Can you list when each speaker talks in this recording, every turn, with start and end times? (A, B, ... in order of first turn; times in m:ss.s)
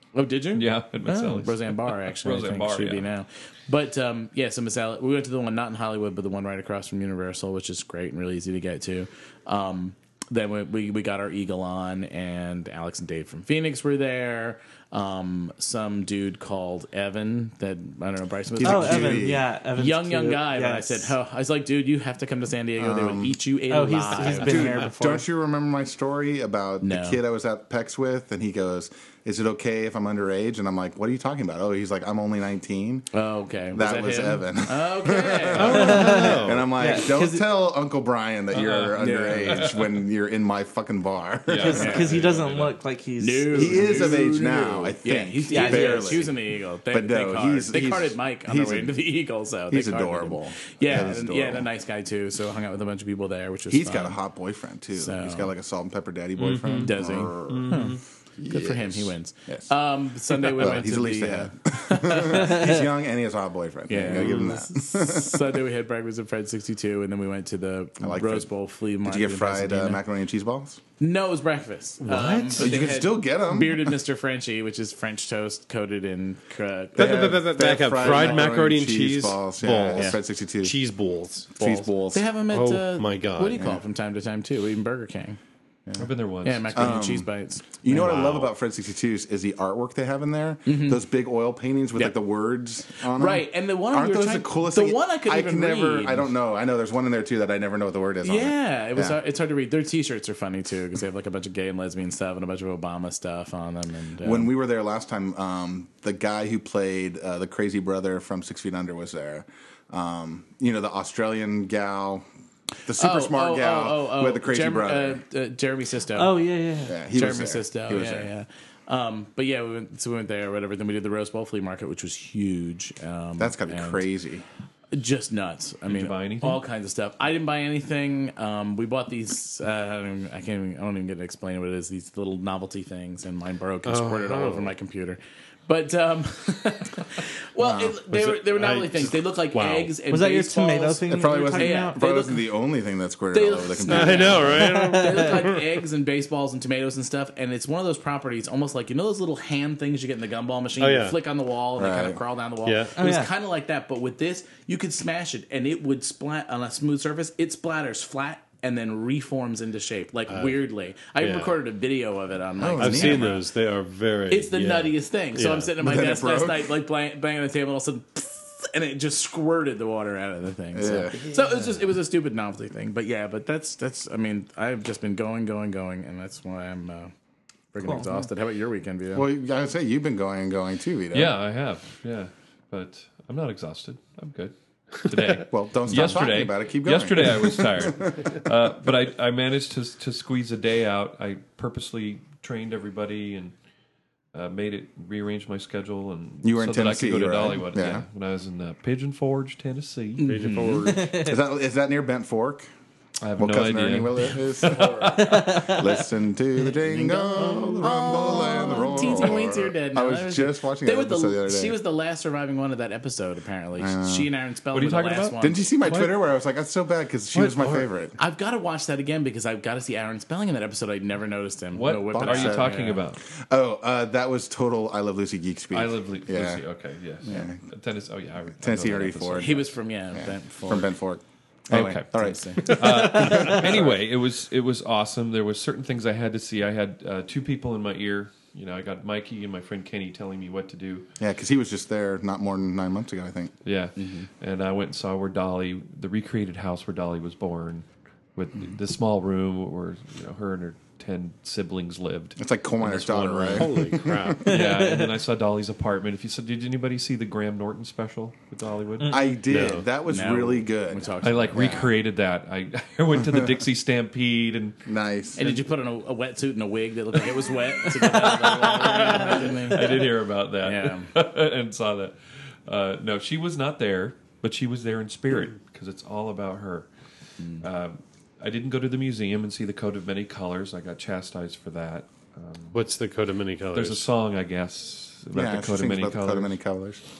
0:00.1-0:24.9 A
0:00.5-0:03.1 B
0:18.6-0:19.5 C
0:18.6-0:21.1 D
0:22.8-0:23.4 C
0:23.7-0:25.3 D
0:24.2-0:33.1 C
0:26.8-0:27.2 A
0:33.1-0:36.4 A
0:33.7-0:42.1 C
0:35.6-0:36.7 E
0:35.7-0:37.2 D
0:36.9-0:37.4 A
0:38.5-0:39.9 B
0:38.7-0:39.7 A
0:41.5-0:42.8 B
0:41.5-0:44.2 D
0:41.7-0:42.1 A
0:43.2-0:54.2 A
0:43.5-0:46.3 C
0:45.5-0:46.2 D
0:46.9-0:49.0 C
0:49.7-0:51.7 C
0:53.7-0:59.7 C
0:54.9-0:55.5 A
0:56.6-0:56.9 D
0:56.8-1:02.7 A
0:57.5-0:57.9 B
0:57.7-0:58.0 D
1:00.3-1:05.6 C
1:02.3-1:02.8 D
1:03.9-1:10.0 A
1:08.0-1:08.5 C
1:09.0-1:10.8 C
1:11.0-1:17.4 A
1:12.0-1:14.0 C
1:17.0-1:21.9 E
1:17.0-1:20.8 C
1:21.6-1:22.2 C
1:22.1-1:25.4 A
1:22.5-1:23.7 E
1:26.0-1:27.0 B
1:26.4-1:28.5 A
1:26.8-1:27.3 C
1:27.8-1:39.2 C
1:30.7-1:31.0 A
1:33.0-1:36.3 A
1:38.2-1:44.5 A
1:44.2-1:52.2 C
1:52.9-1:55.2 C
1:52.9-1:56.4 A
1:56.2-1:57.0 D
1:56.8-1:58.3 C
1:57.1-2:04.0 A
2:03.4-2:04.4 C
2:04.9-2:22.5 A
2:05.9-2:06.6 B
2:13.9-2:14.7 E
2:17.6-2:18.0 C
2:18.1-2:20.0 E
2:20.1-2:22.0 D
2:21.1-2:24.7 C
2:23.3-2:43.4 A
2:23.9-2:25.8 E
2:24.6-2:25.2 D
2:30.8-2:31.2 E
2:31.8-2:32.2 C
2:32.6-2:33.0 E
2:33.0-2:33.3 D
2:40.3-2:40.6 E
2:41.2-2:41.6 E
2:42.6-2:43.4 C
2:42.8-2:45.7 E
2:44.3-2:57.1 A
2:45.8-2:46.7 C
2:50.7-2:51.2 C
2:57.7-2:59.3 A
2:59.2-3:01.3 C
3:01.1-3:13.6 B
3:05.5-3:08.2 C
3:14.3-3:20.3 B
3:16.4-3:18.0 C
3:20.2-3:21.0 A
3:20.3-3:21.1 E
3:20.9-3:21.4 D
3:21.1-3:22.7 C
3:23.2-3:25.6 B
3:23.4-3:31.8 C
3:25.2-3:25.9 D
3:26.6-3:35.7 A
3:27.4-3:29.3 D
3:33.8-3:34.3 C
3:34.7-3:36.1 B
3:35.4-3:38.2 C
3:38.2-3:43.0 A
3:41.7-3:43.2 B
3:42.1-3:42.8 C
3:43.4-3:46.6 C
3:45.7-3:49.7 B
3:47.2-3:47.6 C
3:48.6-3:49.5 C
3:49.4-3:51.0 A
3:50.2-3:54.0 C
3:51.7-4:01.1 B
3:52.0-3:52.8 A
4:01.2-4:03.5 C
4:03.6-4:13.8 B
4:04.0-4:04.3 A
4:12.4-4:14.5 C
4:13.0-4:14.5 E
4:14.4-4:19.3 B
4:14.5-4:15.1 D
4:19.0-4:19.4 D
4:19.1-4:21.9 C
4:19.5-4:19.8 E
4:20.1-4:21.9 A
4:21.2-4:24.8 B
4:24.9-4:25.4 C
4:25.4-4:31.1 A
4:28.2-4:36.9 B
4:37.4-4:37.6 A
4:37.6-4:42.8 B
4:42.7-4:44.0 E
4:43.7-4:46.6 B
4:45.3-4:47.0 C